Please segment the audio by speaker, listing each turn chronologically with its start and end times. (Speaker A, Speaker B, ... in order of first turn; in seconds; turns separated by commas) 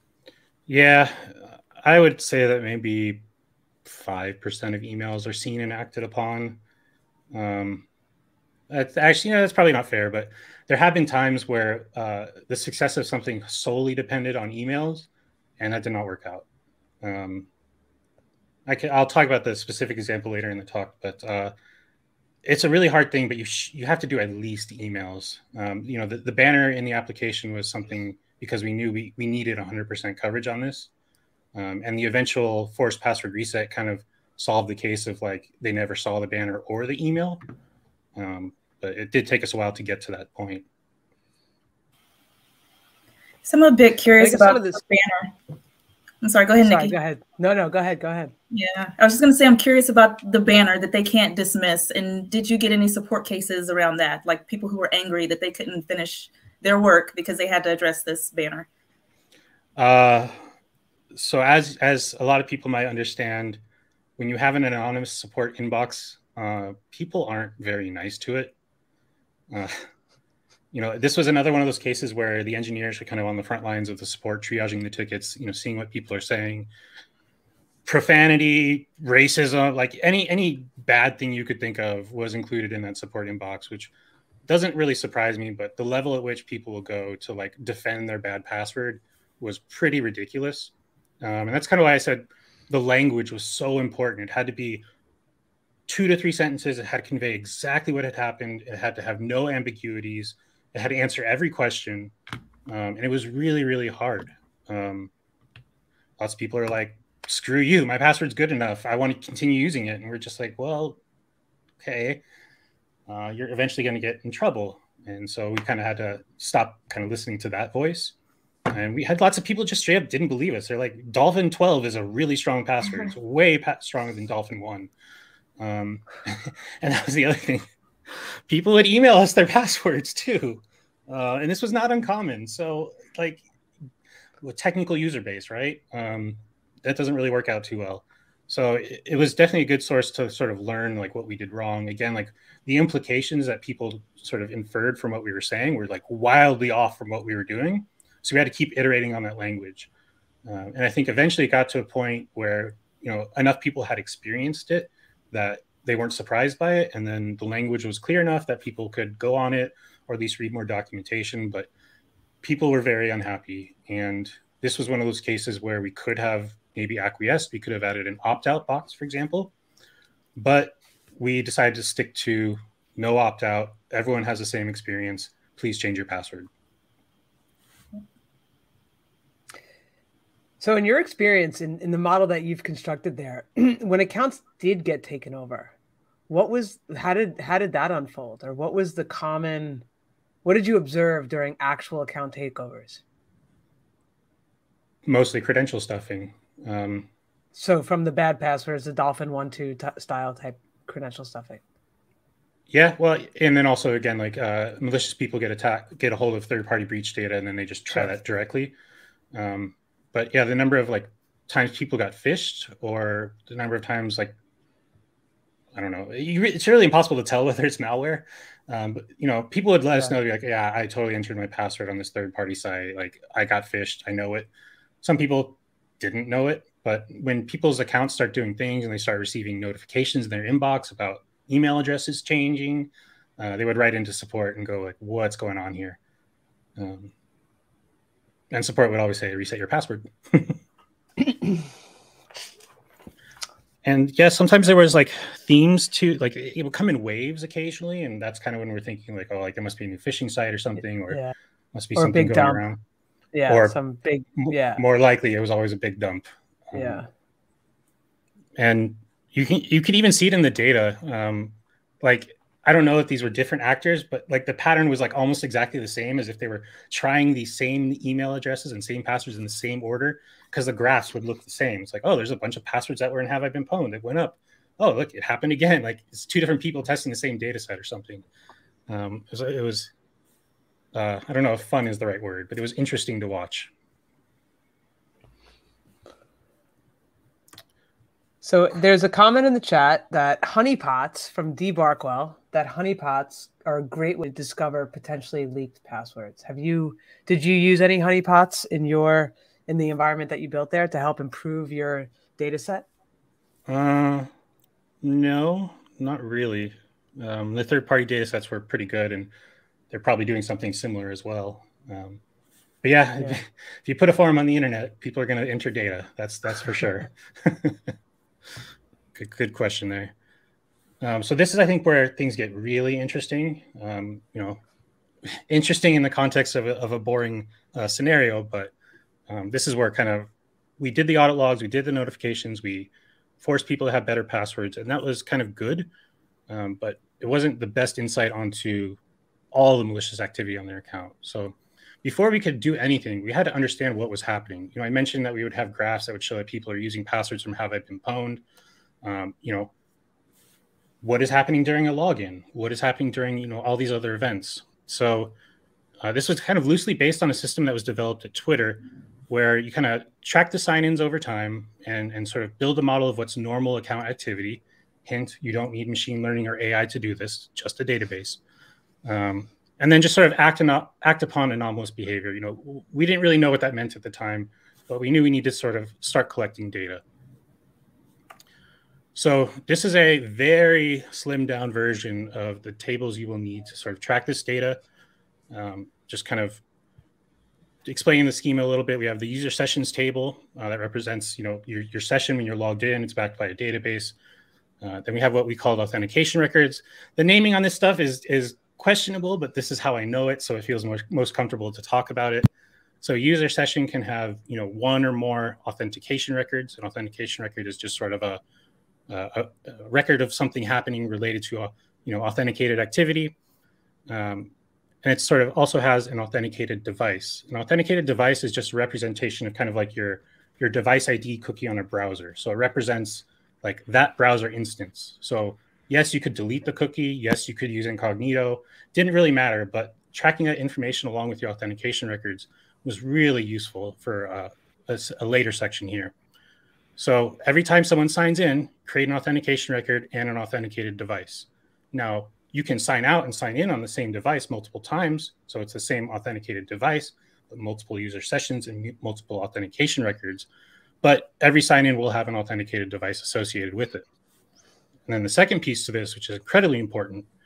Speaker A: 0.7-3.2, Speaker A: 3.8-6.6, Speaker A: 7.3-7.8, Speaker A: 8.7-15.1, Speaker A: 15.6-16.4, Speaker A: 17.0-17.5, Speaker A: 18.6-21.5, Speaker A: 22.4-30.9, Speaker A: 31.5-37.4, Speaker A: 38.1-40.6, Speaker B: 43.4-45.3, Speaker C: 44.2-44.8, Speaker B: 46.2-47.0, Speaker C: 46.6-48.3, Speaker B: 48.5-58.7, Speaker A: 59.8-60.4, Speaker A: 61.1-63.6, Speaker A: 64.2-68.5, Speaker A: 69.5-69.9, Speaker A: 70.7-76.7, Speaker A: 77.8-83.9, Speaker A: 84.5-94.8, Speaker A: 95.9-102.1, Speaker A: 102.7-105.1, Speaker A: 106.2-111.0, Speaker A: 111.8-112.2, Speaker A: 113.1-118.1, Speaker A: 118.7-124.9, Speaker A: 125.6-133.4, Speaker A: 134.4-149.9, Speaker A: 150.4-161.7, Speaker A: 162.4-169.5, Speaker A: 170.3-176.5, Speaker C: 180.6-185.7, Speaker C: 186.3-189.8, Speaker C: 190.4-193.0, Speaker A: 195.0-197.1, Speaker C: 197.5-201.6, Speaker A: 202.7-208.8, Speaker A: 209.3-214.3, Speaker A: 215.7-224.5, Speaker A: 225.0-236.0, Speaker A: 236.8-237.1, Speaker A: 238.5-240.6, Speaker A: 243.8-251.2, Speaker C: 251.1-251.3, Speaker A: 251.7-252.8, Speaker C: 251.9-252.6, Speaker C: 253.3-254.8, Speaker A: 253.5-253.8, Speaker A: 254.3-257.0, Speaker C: 256.7-257.1, Speaker A: 258.6-278.2, Speaker A: 278.9-279.9, Speaker A: 280.9-283.7, Speaker C: 288.4-302.8, Speaker A: 303.7-304.3, Speaker A: 305.0-309.3, Speaker A: 309.9-312.2, Speaker A: 312.8-317.9, Speaker A: 319.1-320.1, Speaker A: 321.0-324.6, Speaker A: 325.2-328.7, Speaker A: 329.3-335.9, Speaker A: 336.5-339.0, Speaker A: 339.5-348.4, Speaker A: 349.0-349.7, Speaker A: 351.0-355.3, Speaker A: 356.0-368.4, Speaker A: 369.0-377.0, Speaker A: 379.1-384.8, Speaker A: 385.5-386.6, Speaker A: 387.8-394.1, Speaker A: 394.8-402.5, Speaker A: 403.0-408.4, Speaker A: 409.1-413.3, Speaker A: 414.1-414.5, Speaker A: 415.0-436.1, Speaker A: 437.0-450.5, Speaker A: 451.0-454.0, Speaker A: 455.1-457.3